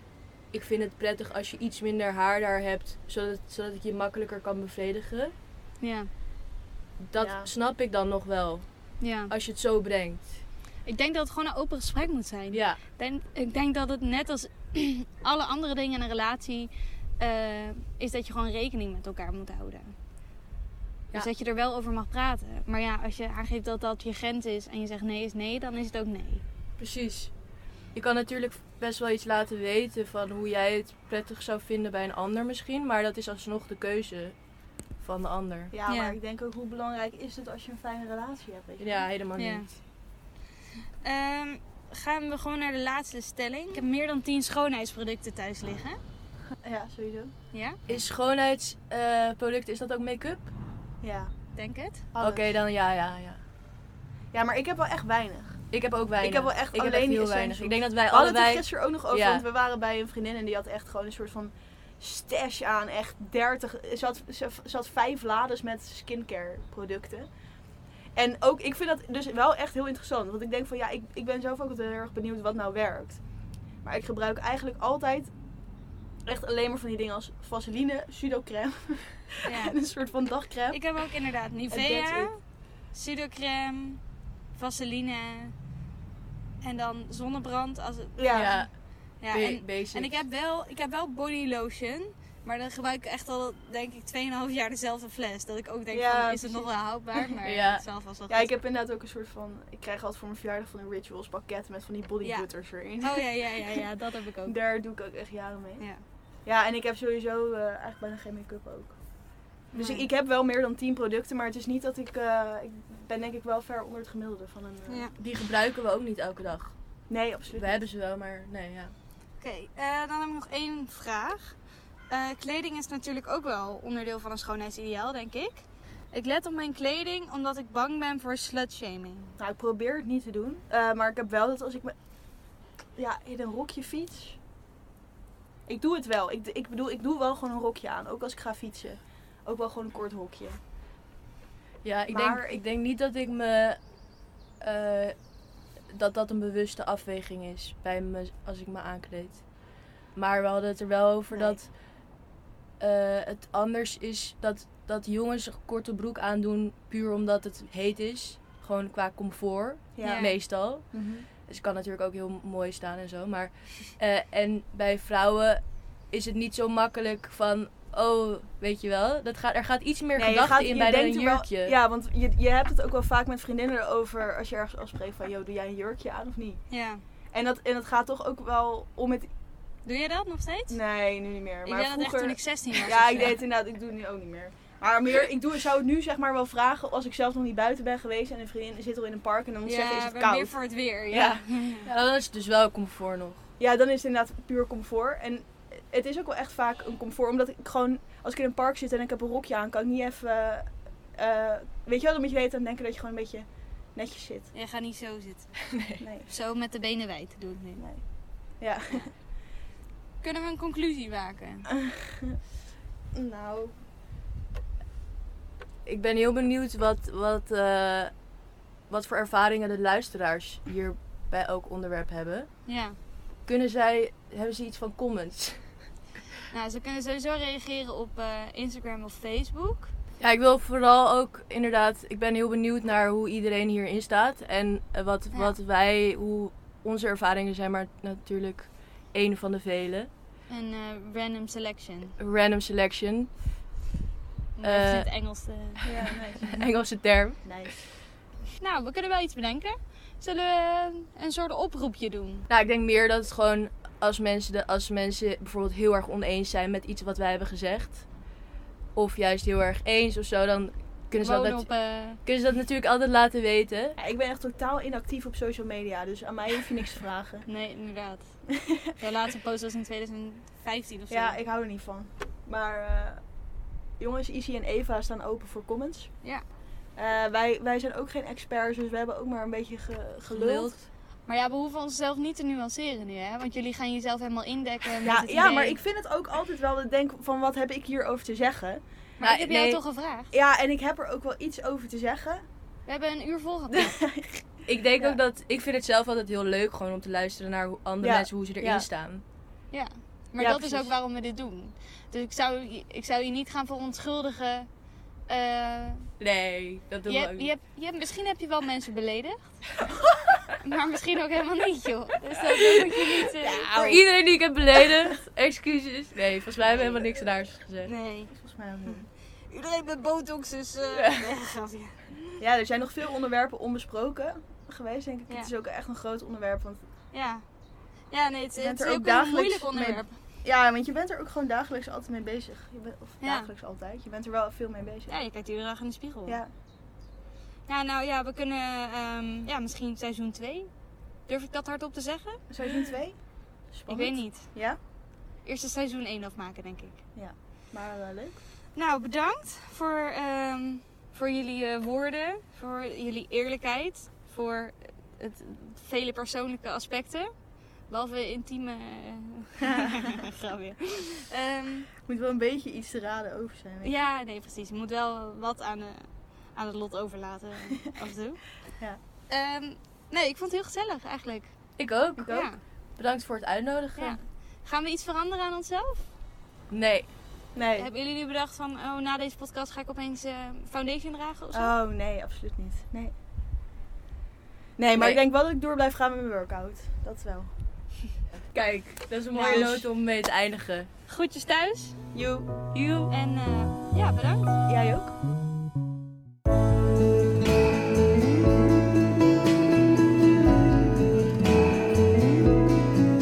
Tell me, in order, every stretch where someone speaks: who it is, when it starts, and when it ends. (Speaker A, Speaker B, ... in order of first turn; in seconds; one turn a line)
Speaker A: 0.5-5.3
Speaker B: 5.8-6.1
Speaker A: 7.0-8.7
Speaker C: 7.2-7.5
Speaker B: 9.0-9.3
Speaker A: 9.3-10.3
Speaker B: 10.8-19.9
Speaker A: 12.5-12.8
Speaker B: 21.1-26.4
Speaker A: 26.8-27.3
Speaker A: 27.9-34.4
Speaker A: 35.0-35.7
Speaker C: 35.7-39.0
Speaker B: 35.9-36.2
Speaker A: 38.8-39.7
Speaker B: 39.4-39.7
Speaker B: 41.0-46.0
Speaker C: 46.6-47.3
Speaker B: 47.5-47.8
Speaker A: 47.9-50.5
Speaker C: 51.0-51.3
Speaker B: 51.5-52.0
Speaker C: 52.1-52.5
Speaker A: 52.2-53.4
Speaker C: 54.3-55.6
Speaker A: 55.7-59.4
Speaker C: 56.2-67.3
Speaker C: 68.2-73.2
Speaker C: 73.8-75.3
Speaker C: 76.2-80.8
Speaker B: 79.5-79.8
Speaker B: 80.7-82.4
Speaker C: 81.7-82.3
Speaker B: 82.9-84.0
Speaker B: 84.5-85.5
Speaker B: 86.6-88.7
Speaker C: 88.2-88.5
Speaker A: 88.3-88.7
Speaker B: 89.2-98.5
Speaker A: 89.3-90.2
Speaker C: 95.9-97.3
Speaker A: 97.4-97.8
Speaker C: 98.3-103.8
Speaker B: 102.2-102.5
Speaker B: 103.0-104.5
Speaker C: 104.5-105.8
Speaker C: 106.5-109.0
Speaker C: 109.7-115.1
Speaker B: 109.7-110.1
Speaker B: 114.9-115.1
Speaker A: 115.2-116.7
Speaker C: 117.1-117.8
Speaker A: 117.5-118.9
Speaker B: 119.4-121.5
Speaker B: 122.1-129.3
Speaker C: 129.4-131.9
Speaker C: 132.9-134.4
Speaker C: 135.7-140.6
Speaker A: 141.8-143.8
Speaker C: 142.1-142.6
Speaker A: 144.6-145.1
Speaker A: 145.9-149.4
Speaker A: 150.2-151.7
Speaker C: 151.3-151.6
Speaker A: 152.8-160.9
Speaker C: 159.9-161.2
Speaker B: 160.0-160.3
Speaker A: 161.5-171.8
Speaker C: 170.2-176.6
Speaker B: 176.7-177.0
Speaker C: 177.3-179.3
Speaker B: 179.8-180.8
Speaker C: 180.7-190.5
Speaker B: 181.7-183.4
Speaker B: 189.6-191.9
Speaker C: 191.1-191.4
Speaker A: 191.8-193.4
Speaker C: 193.6-204.5
Speaker B: 204.5-205.5
Speaker A: 205.7-206.0
Speaker C: 206.0-206.3
Speaker B: 206.3-207.8
Speaker C: 207.8-208.0
Speaker C: 208.6-209.1
Speaker B: 210.2-211.7
Speaker C: 211.7-212.4
Speaker C: 213.1-213.8
Speaker A: 215.8-218.1
Speaker A: 218.9-222.5
Speaker B: 222.7-222.9
Speaker A: 223.4-225.7
Speaker B: 226.5-229.9
Speaker A: 230.2-240.1
Speaker B: 240.5-242.1
Speaker A: 242.2-243.3
Speaker B: 244.6-246.1
Speaker A: 244.6-245.1
Speaker C: 245.8-246.6
Speaker A: 246.4-247.5
Speaker C: 247.4-247.8
Speaker B: 248.6-252.4
Speaker A: 252.5-258.0
Speaker A: 258.9-263.9
Speaker B: 261.2-262.2
Speaker C: 264.0-267.4
Speaker B: 267.4-271.4
Speaker C: 268.6-268.9
Speaker C: 271.1-273.2
Speaker C: 274.0-276.1
Speaker C: 276.9-280.7
Speaker A: 280.3-280.9
Speaker B: 281.3-285.8
Speaker C: 285.0-288.8
Speaker B: 289.2-290.3
Speaker A: 289.2-289.8
Speaker C: 290.3-292.4
Speaker B: 292.9-294.0
Speaker C: 293.7-295.2
Speaker A: 294.7-299.2
Speaker C: 298.0-298.9
Speaker B: 299.7-304.7
Speaker C: 300.4-300.9
Speaker B: 305.3-306.1
Speaker A: 306.2-307.5
Speaker B: 307.1-309.5
Speaker C: 310.0-310.3
Speaker B: 310.6-313.8
Speaker C: 313.4-314.1
Speaker A: 313.8-317.9
Speaker B: 316.7-317.0
Speaker B: 317.8-318.3
Speaker C: 318.3-319.1
Speaker B: 319.5-322.4
Speaker A: 320.9-321.3
Speaker C: 322.4-326.8
Speaker B: 327.1-327.4
Speaker B: 328.1-330.2
Speaker C: 328.6-335.1
Speaker B: 333.2-333.5
Speaker B: 335.1-336.4
Speaker B: 337.7-340.7
Speaker B: 341.3-342.4
Speaker C: 342.5-343.2
Speaker C: 343.7-344.8
Speaker B: 343.9-344.5
Speaker B: 345.4-347.0
Speaker C: 347.1-348.4
Speaker B: 348.7-357.3
Speaker B: 357.9-361.9
Speaker C: 362.0-363.9
Speaker B: 363.8-368.5
Speaker B: 369.3-371.5
Speaker A: 371.8-374.2
Speaker C: 372.2-372.5
Speaker B: 372.2-372.6
Speaker B: 373.9-376.1
Speaker A: 376.7-377.1
Speaker C: 377.5-377.9
Speaker B: 377.8-381.7
Speaker C: 381.5-383.1
Speaker C: 384.8-387.5
Speaker A: 384.9-385.2
Speaker A: 388.5-390.9
Speaker B: 389.3-389.7
Speaker C: 389.4-389.8
Speaker B: 391.1-392.0
Speaker C: 392.1-392.7
Speaker A: 392.7-393.1
Speaker B: 393.1-394.6
Speaker C: 394.7-395.1